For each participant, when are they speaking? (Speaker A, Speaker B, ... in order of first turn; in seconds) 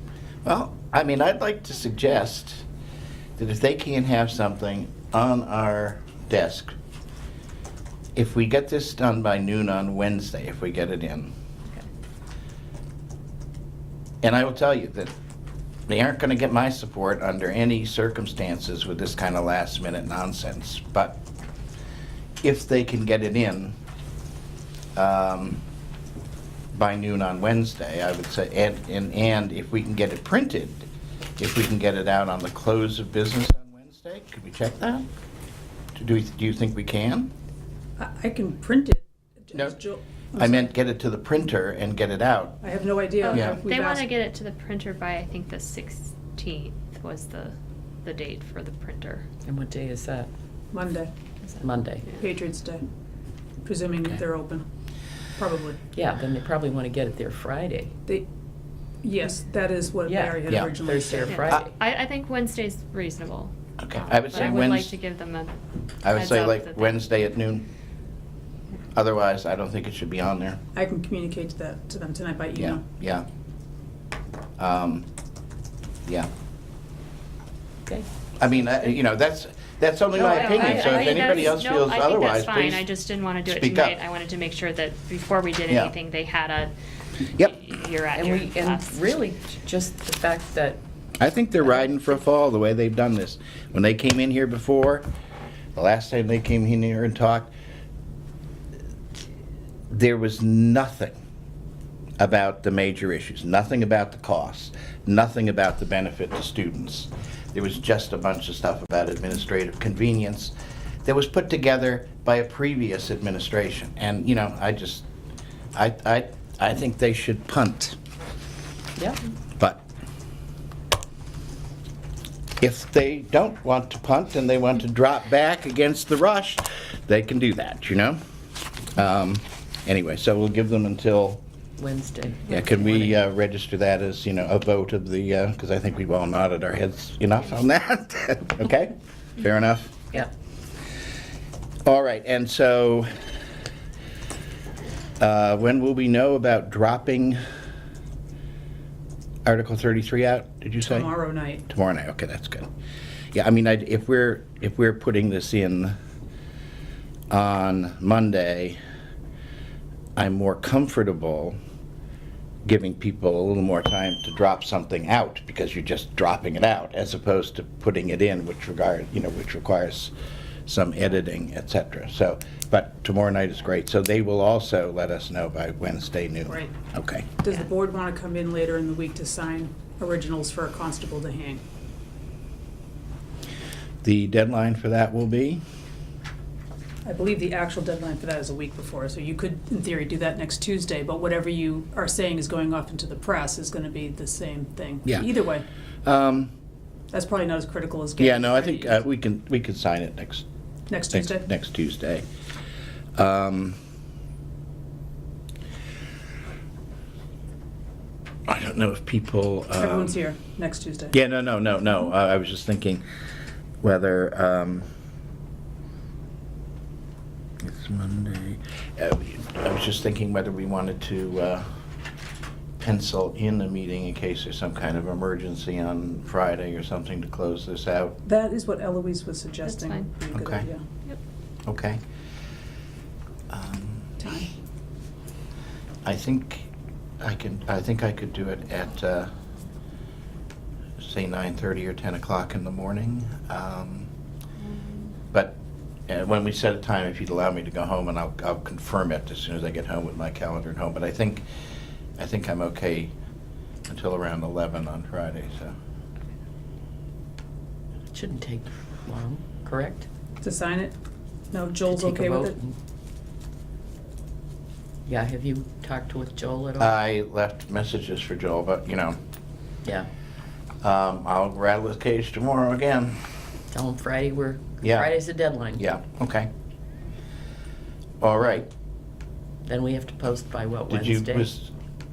Speaker A: 0.4-2.6, 3.4-6.7, 8.2-11.3, 14.2-15.1, 15.9-21.2, 22.4-23.8, 25.0-25.6, 26.7-30.9, 31.4-35.1, 36.0-37.3, 40.4-42.6, 43.3-43.6, 60.5-60.7, 63.8-65.0, 66.0-67.7, 68.9-70.6, 72.5-73.3, 74.6-75.1, 78.4-82.9, 83.5-84.0, 91.2-95.1, 95.8-97.5, 99.9-101.2, 102.2-110.5, 111.0-115.0, 115.8-118.0, 119.6-119.8, 122.6-128.2, 128.9-131.4, 132.5-140.2, 141.8-143.1, 145.2-147.4, 149.4-151.1, 151.7-152.7, 153.3-155.9, 157.3-158.8, 160.2-161.6, 162.7-170.1, 170.7-177.3, 184.0-185.6, 196.0-196.5, 198.2-200.4, 201.1-202.2, 203.2-203.8, 208.5-210.2, 211.1-213.0, 213.8-214.9, 217.6-221.7, 222.8-228.2, 230.3-230.7, 231.7-232.0, 233.5-234.2, 236.0-236.7, 237.2-239.3, 241.0-244.1, 245.3-245.6, 246.1-251.4, 252.2-253.1, 253.9-255.8, 266.8-269.2, 270.8-273.2, 274.8-275.1, 275.8-276.5, 278.2-278.7, 280.9-281.7
Speaker B: 38.0-40.7, 42.6-44.1, 50.7-51.1, 52.2-52.9, 53.6-54.6, 55.4-55.8, 59.0-61.5, 70.8-72.8, 150.9-151.6, 177.4-181.6, 187.0-195.7, 197.1-198.9, 200.9-201.5, 209.8-211.1, 228.2-230.8, 234.2-234.5, 260.4-260.9, 261.5-262.6
Speaker C: 43.2-49.3, 51.4-52.2, 61.3-67.1, 80.2-86.7, 87.3-89.2, 229.7-230.1
Speaker D: 49.5-50.3, 51.6-52.0, 55.9-57.9, 60.1-61.7, 77.9-79.0, 80.3-81.2, 88.2-90.8, 131.8-133.2, 258.1-260.1, 261.9-262.7, 265.1-267.0, 273.7-275.8, 279.7-281.5